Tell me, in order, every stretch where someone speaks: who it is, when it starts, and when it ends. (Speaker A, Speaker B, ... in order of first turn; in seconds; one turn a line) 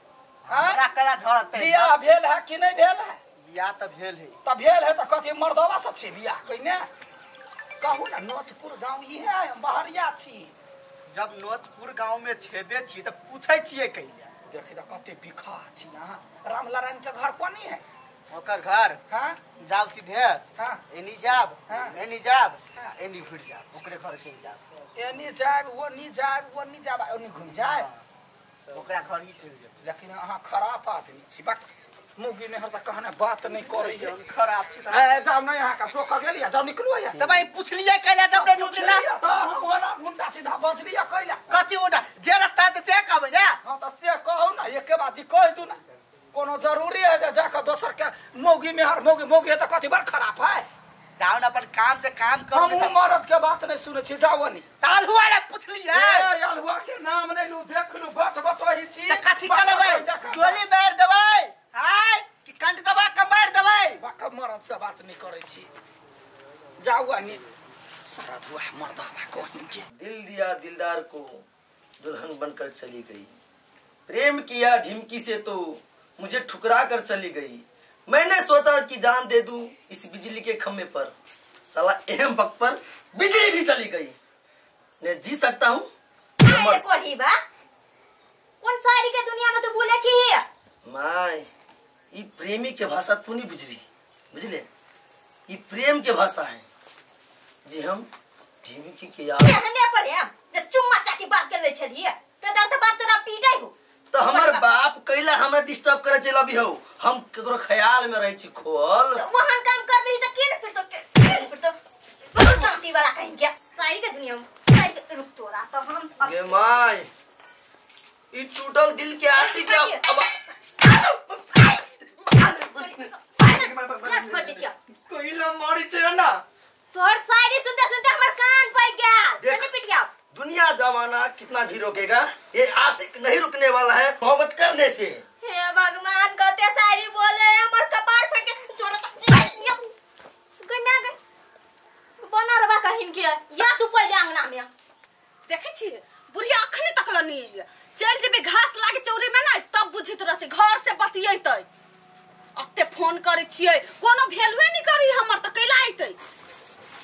Speaker A: 0.4-1.9
Speaker B: 0.5-0.8
Speaker B: 1.5-3.2
Speaker A: 3.4-4.4
Speaker B: 4.4-6.9
Speaker B: 7.8-10.5
Speaker A: 11.1-14.3
Speaker B: 14.5-17.8
Speaker A: 18.3-19.0
Speaker B: 19.1-19.4
Speaker A: 19.6-24.6
Speaker B: 20.6-20.8
Speaker B: 21.7-22.0
Speaker B: 24.9-27.9
Speaker A: 27.6-28.0
Speaker A: 28.7-29.7
Speaker B: 29.8-31.6
Speaker B: 32.2-34.1
Speaker A: 33.6-35.1
Speaker B: 34.9-37.2
Speaker A: 37.1-39.0
Speaker B: 38.3-41.5
Speaker A: 41.5-43.6
Speaker B: 43.6-45.8
Speaker B: 46.3-50.6
Speaker A: 51.2-52.9
Speaker B: 52.5-54.6
Speaker A: 54.8-56.3
Speaker B: 55.9-60.6
Speaker A: 59.1-64.0
Speaker B: 64.0-65.7
Speaker B: 66.8-67.4
Speaker B: 68.0-69.9
Speaker C: 69.9-71.4
Speaker C: 72.0-73.3
Speaker C: 74.1-81.1
Speaker C: 81.7-84.2
Speaker C: 85.0-85.9
Speaker D: 86.4-87.4
Speaker C: 86.4-86.8
Speaker D: 88.6-90.5
Speaker C: 90.8-91.5
Speaker C: 92.1-94.7
Speaker C: 95.5-96.7
Speaker C: 97.6-98.1
Speaker C: 98.6-99.6
Speaker D: 99.4-104.7
Speaker C: 104.1-109.2
Speaker D: 109.1-111.8
Speaker D: 112.3-116.7
Speaker C: 116.2-117.1
Speaker C: 118.3-120.3
Speaker D: 119.3-120.2
Speaker C: 120.8-126.4
Speaker D: 122.2-124.8
Speaker D: 126.9-130.1
Speaker C: 129.4-129.7
Speaker C: 130.3-135.2
Speaker D: 135.4-139.9
Speaker D: 140.6-141.2
Speaker D: 142.2-144.7
Speaker E: 145.5-151.7
Speaker E: 152.5-156.2